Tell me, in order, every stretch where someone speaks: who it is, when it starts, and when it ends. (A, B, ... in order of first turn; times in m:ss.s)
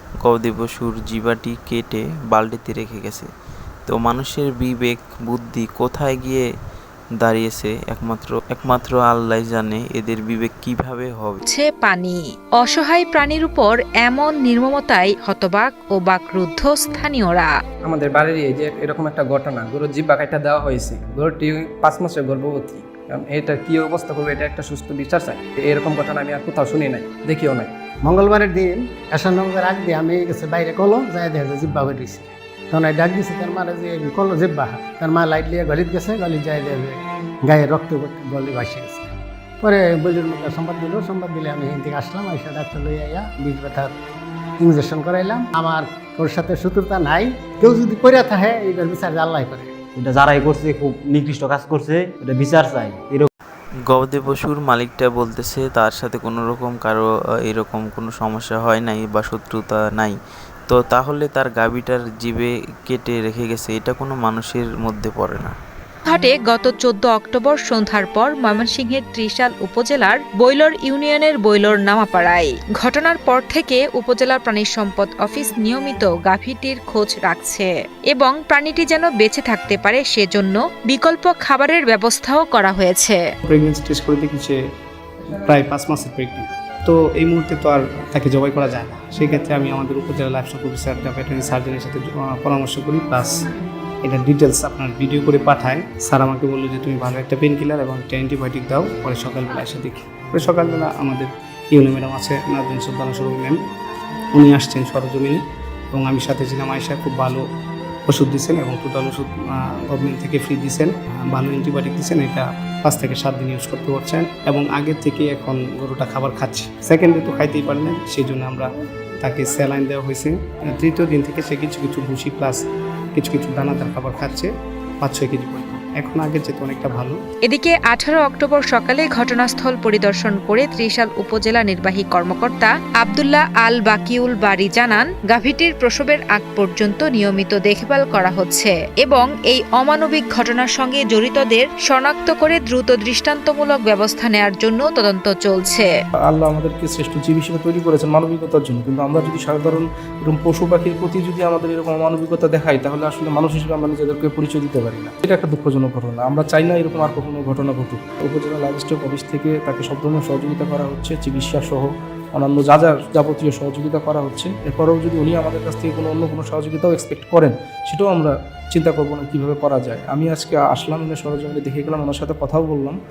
0:00.2-0:03.3 A
0:03.9-0:06.4 A
0:07.2-0:11.4 A
0:11.4-0:17.5 B
0:17.8-0:27.7 C
0:19.0-0:20.7 D
0:21.4-0:22.2 D
0:23.3-0:23.9 D
0:24.6-0:25.2 D
0:25.9-0:27.6 D
0:28.0-0:39.1 E
0:39.6-0:43.9 E
0:44.6-0:49.7 E
0:49.9-0:53.3 F
0:53.9-1:00.1 A
1:00.7-1:05.5 A
1:06.1-1:23.2 B
1:23.5-1:24.6 G
1:25.4-1:33.4 G
1:34.0-1:43.6 G
1:44.3-1:47.4 G
1:48.1-1:58.7 G
1:59.2-2:02.6 G
2:03.1-2:07.2 G
2:07.5-2:25.9 B
2:26.2-2:53.0 D